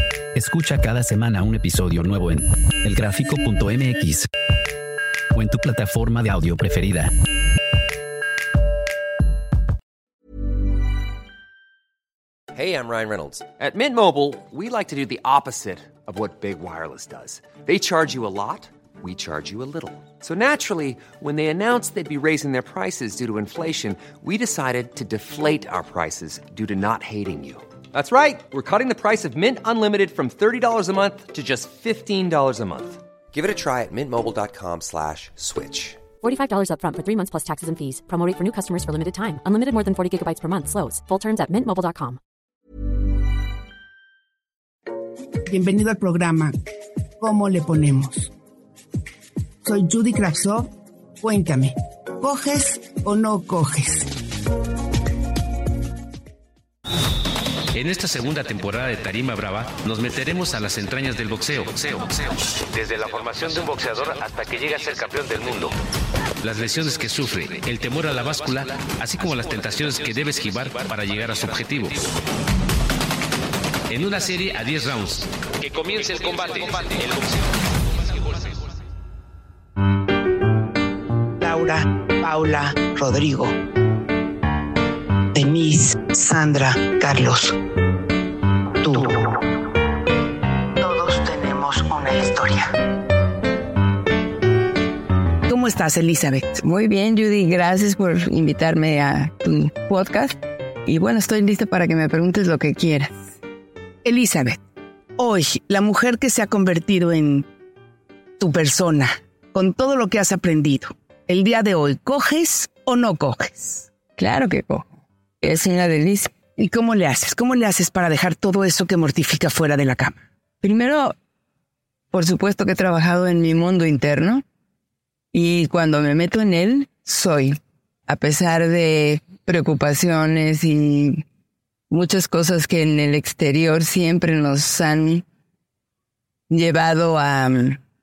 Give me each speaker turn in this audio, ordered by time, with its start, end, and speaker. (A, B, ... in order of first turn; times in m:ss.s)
0:00.3-0:04.3 A
0:05.3-0:07.1 A
0:12.5-0:36.0 B
0:36.2-0:42.2 C
0:45.5-0:46.6 D
0:47.2-0:48.3 D
0:49.6-0:50.7 D
0:51.2-0:54.1 D
0:57.7-1:05.7 E
1:06.4-1:12.1 E
1:13.9-1:17.3 E
1:21.4-1:23.5 D
1:25.3-1:27.6 D
1:28.8-1:29.3 D
1:30.8-1:32.7 D
1:35.5-1:36.6 D
1:36.6-1:43.3 F
1:44.0-1:44.6 D
1:45.2-1:47.5 D
1:48.4-1:53.9 D
1:54.2-1:54.9 F
1:55.4-1:56.3 F
1:56.6-2:00.2 D
2:00.6-2:01.2 F
2:02.1-2:04.4 F
2:05.3-2:11.2 F
2:11.9-2:15.2 F
2:16.5-2:17.8 F